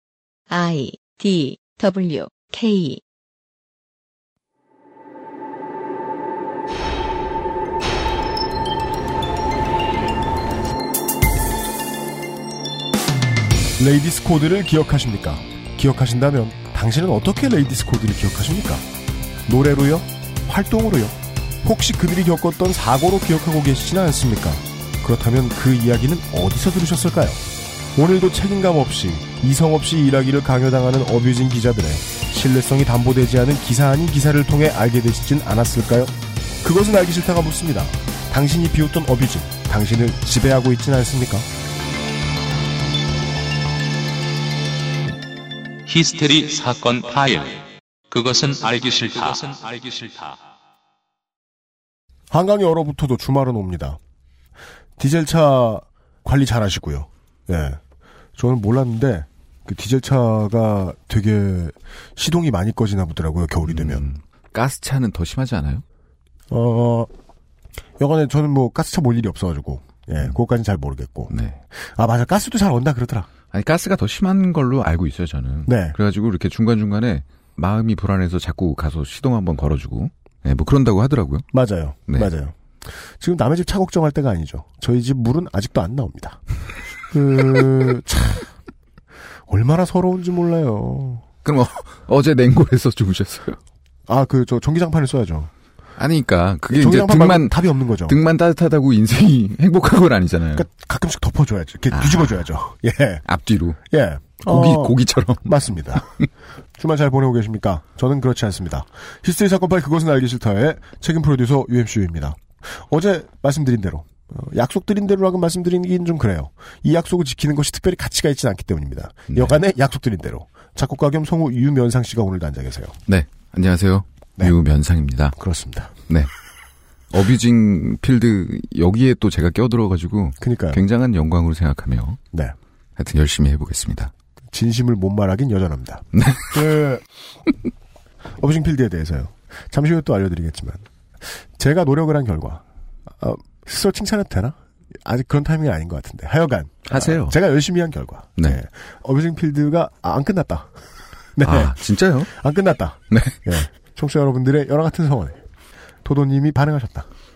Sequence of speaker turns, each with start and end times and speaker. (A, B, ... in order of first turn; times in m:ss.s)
0:00.5-0:03.0 A
0:13.8-0:18.8 B
0:19.5-0:27.4 B
0:27.9-0:41.5 B
0:45.8-0:50.4 C
0:52.3-0:54.0 B
0:55.0-0:57.8 B
0:58.4-1:04.0 B
1:03.7-1:05.8 D
1:06.5-1:07.1 B
1:08.0-1:11.3 B
1:11.3-1:11.6 D
1:12.0-1:13.3 B
1:13.5-1:21.4 D
1:15.6-1:16.0 B
1:21.5-1:22.5 B
1:23.2-1:26.4 B
1:27.1-1:28.4 B
1:29.5-1:31.2 B
1:31.4-1:33.6 D
1:34.1-1:35.5 B
1:36.0-1:40.6 D
1:36.7-1:38.2 B
1:40.5-1:43.2 B
1:41.9-1:42.4 D
1:43.2-1:43.8 D
1:43.9-1:46.0 B
1:44.4-1:45.4 D
1:46.8-2:03.0 B
1:59.3-1:59.6 D
2:03.1-2:05.3 D
2:05.4-2:06.0 B
2:07.1-2:12.2 D
2:10.4-2:10.8 B
2:13.0-2:14.1 D
2:14.5-2:17.0 B
2:16.1-2:16.6 D
2:18.4-2:22.6 B
2:23.2-2:30.7 B
2:26.9-2:27.4 D
2:31.4-2:31.7 B
2:31.4-2:32.3 D
2:32.3-2:35.4 B
2:33.1-2:33.4 D
2:36.0-2:37.1 B